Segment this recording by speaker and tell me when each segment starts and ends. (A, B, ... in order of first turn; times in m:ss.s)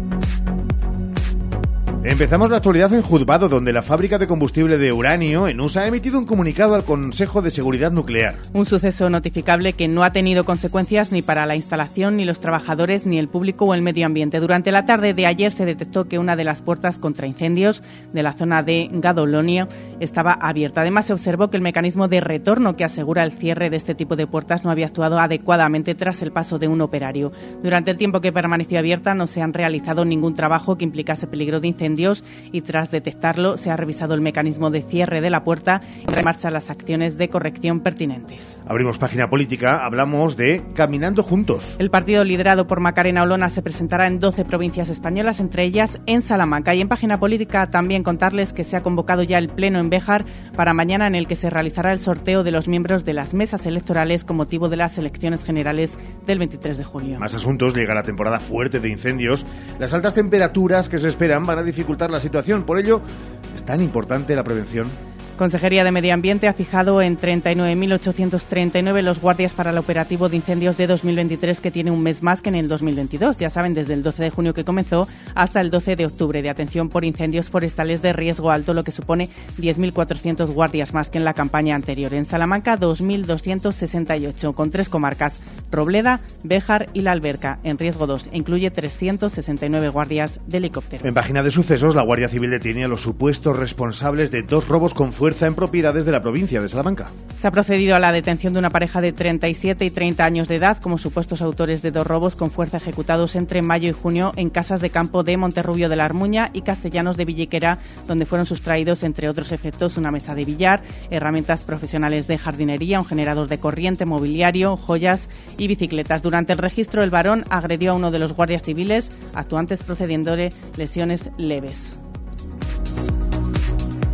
0:02.0-0:08.4 A
0:08.5-0:38.6 B
0:38.7-0:41.8 A
0:41.8-0:57.2 B
0:57.2-1:05.0 A
1:05.4-1:31.2 B
1:31.0-1:37.1 A
1:37.4-2:02.0 B